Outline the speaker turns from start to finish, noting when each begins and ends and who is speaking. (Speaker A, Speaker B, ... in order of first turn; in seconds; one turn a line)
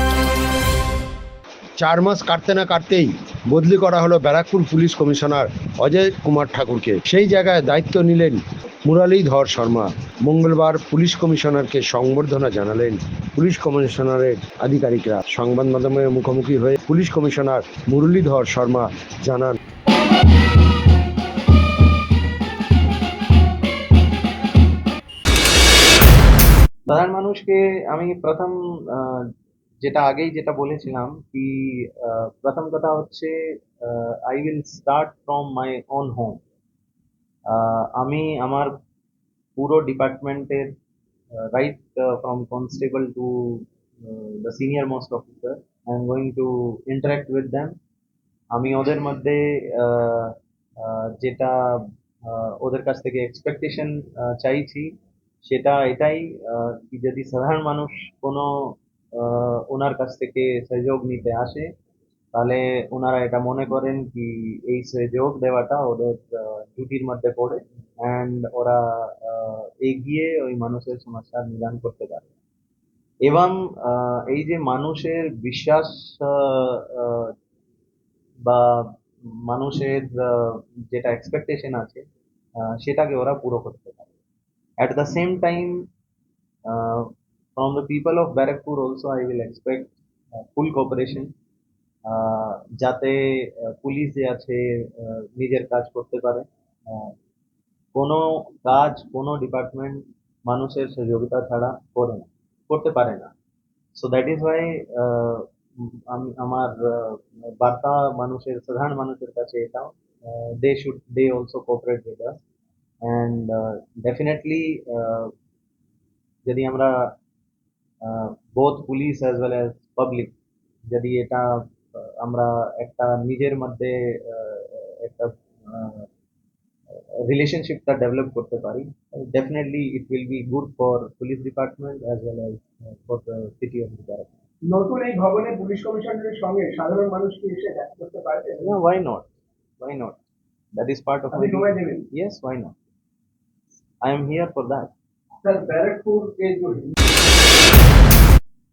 Speaker A: 1.8-19.6
Speaker B: 26.9-29.3
Speaker B: 29.8-36.4
Speaker B: 37.5-38.7
Speaker B: 39.5-40.8
Speaker B: 41.5-47.8
Speaker B: 48.5-54.9
Speaker B: 55.4-61.7
Speaker B: 62.3-72.2
Speaker B: 73.2-77.3
Speaker B: 78.4-82.0
Speaker B: 82.7-84.1
Speaker B: 84.8-85.8
Speaker B: 86.7-91.3
Speaker B: 92.1-97.1
Speaker B: 97.9-103.3
Speaker B: 104.0-112.4
Speaker B: 113.0-115.3
Speaker B: 116.4-117.2
Speaker B: 118.0-120.3
Speaker B: 120.9-126.1
Speaker B: 127.2-134.3
Speaker C: 134.6-138.7
Speaker B: 138.6-139.3
Speaker B: 139.8-140.2
Speaker B: 140.7-142.7
Speaker C: 141.3-142.1
Speaker B: 144.0-144.9
Speaker C: 145.4-146.9